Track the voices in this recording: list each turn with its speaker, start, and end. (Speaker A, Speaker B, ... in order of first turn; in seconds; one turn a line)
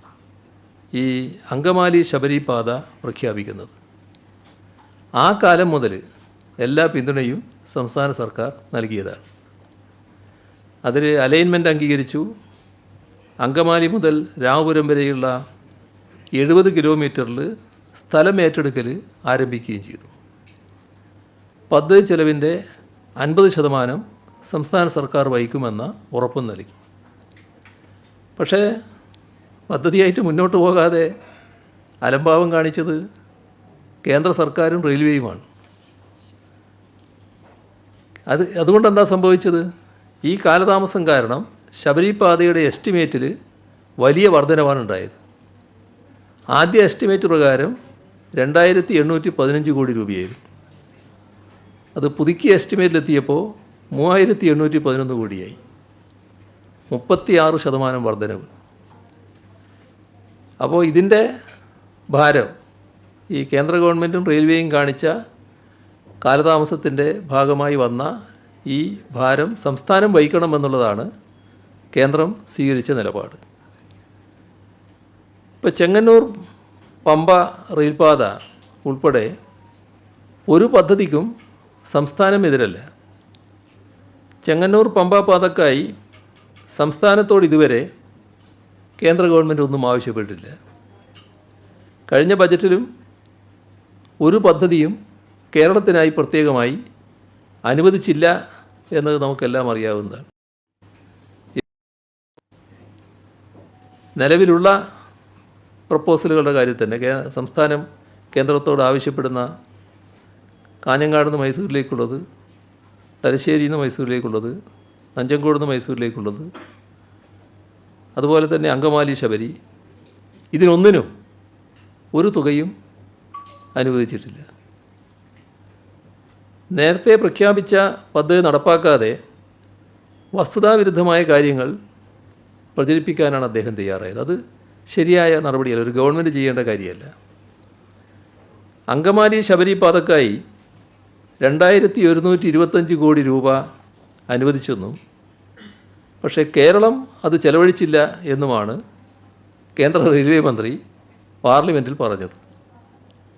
Speaker A: 0.9-3.7
Speaker A: 5.2-6.0
Speaker A: 6.6-9.2
Speaker A: 10.8-12.2
Speaker A: 13.4-15.3
Speaker A: 16.3-20.1
Speaker A: 21.7-22.6
Speaker A: 23.2-26.8
Speaker A: 28.4-28.7
Speaker A: 29.7-31.1
Speaker A: 32.0-33.0
Speaker A: 34.0-35.4
Speaker A: 38.3-39.6
Speaker A: 40.2-43.3
Speaker A: 44.0-45.2
Speaker A: 46.5-47.8
Speaker A: 48.4-50.4
Speaker A: 52.0-55.6
Speaker A: 56.9-58.5
Speaker A: 60.6-61.2
Speaker A: 62.1-62.5
Speaker A: 63.3-65.1
Speaker A: 66.2-68.1
Speaker A: 68.7-71.1
Speaker A: 71.9-73.4
Speaker A: 75.6-76.3
Speaker A: 77.1-79.3
Speaker A: 80.5-81.3
Speaker A: 81.9-82.8
Speaker A: 84.5-85.9
Speaker A: 86.7-87.9
Speaker A: 89.0-90.5
Speaker A: 92.1-92.9
Speaker A: 94.2-95.0
Speaker A: 95.5-96.8
Speaker A: 97.7-98.3
Speaker A: 99.0-100.3
Speaker A: 104.2-104.8
Speaker A: 105.9-109.5
Speaker A: 110.8-112.2
Speaker A: 113.2-114.5
Speaker A: 115.2-116.5
Speaker A: 118.2-119.5
Speaker A: 120.5-121.1
Speaker A: 122.1-122.7
Speaker A: 123.8-124.5
Speaker A: 126.7-129.2
Speaker A: 130.3-131.7
Speaker A: 132.8-134.4
Speaker A: 134.9-137.1
Speaker A: 138.9-140.4
Speaker A: 141.4-143.6
Speaker A: 144.3-145.0
Speaker A: 146.2-148.8
Speaker A: 149.8-150.8
Speaker A: 151.4-152.4